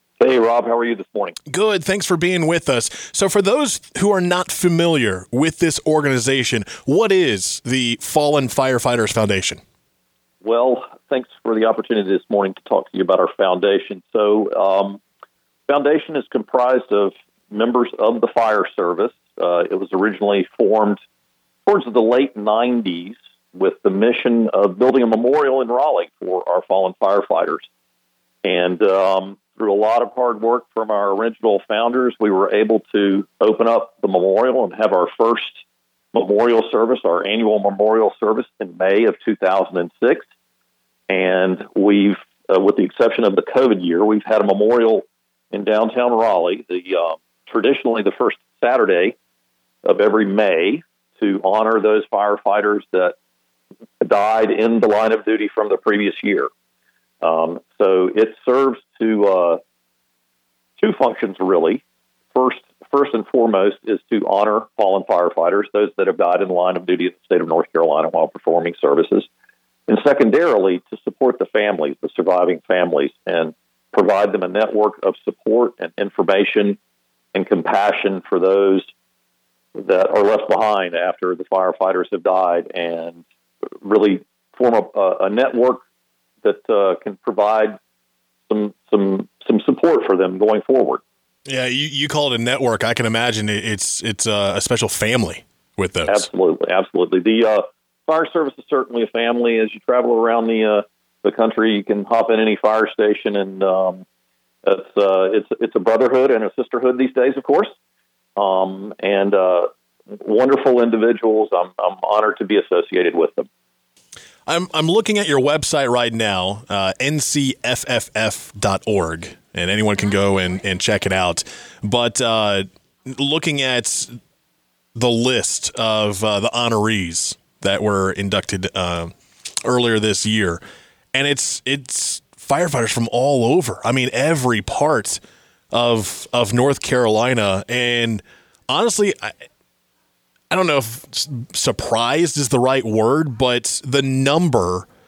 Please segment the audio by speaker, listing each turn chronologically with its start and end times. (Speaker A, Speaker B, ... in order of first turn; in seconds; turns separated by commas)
Speaker A: 0.2-1.4, Speaker B: 1.5-9.6, Speaker A: 10.4-15.0, Speaker A: 15.7-21.0, Speaker A: 21.7-27.7, Speaker A: 28.4-35.6, Speaker A: 36.1-40.3, Speaker A: 41.1-49.2, Speaker A: 49.9-53.1, Speaker A: 54.0-56.5, Speaker A: 57.2-59.6, Speaker A: 60.8-61.8, Speaker A: 62.4-69.3, Speaker A: 69.9-76.8, Speaker A: 77.3-78.9, Speaker A: 79.8-83.2, Speaker A: 83.8-85.8, Speaker A: 86.4-87.8, Speaker A: 88.5-91.0, Speaker B: 91.5-96.3, Speaker A: 96.1-104.0, Speaker A: 104.6-107.7, Speaker A: 108.4-113.5, Speaker B: 114.5-124.1, Speaker B: 125.0-130.6, Speaker B: 131.1-135.2, Speaker B: 135.7-139.3, Speaker B: 140.5-144.9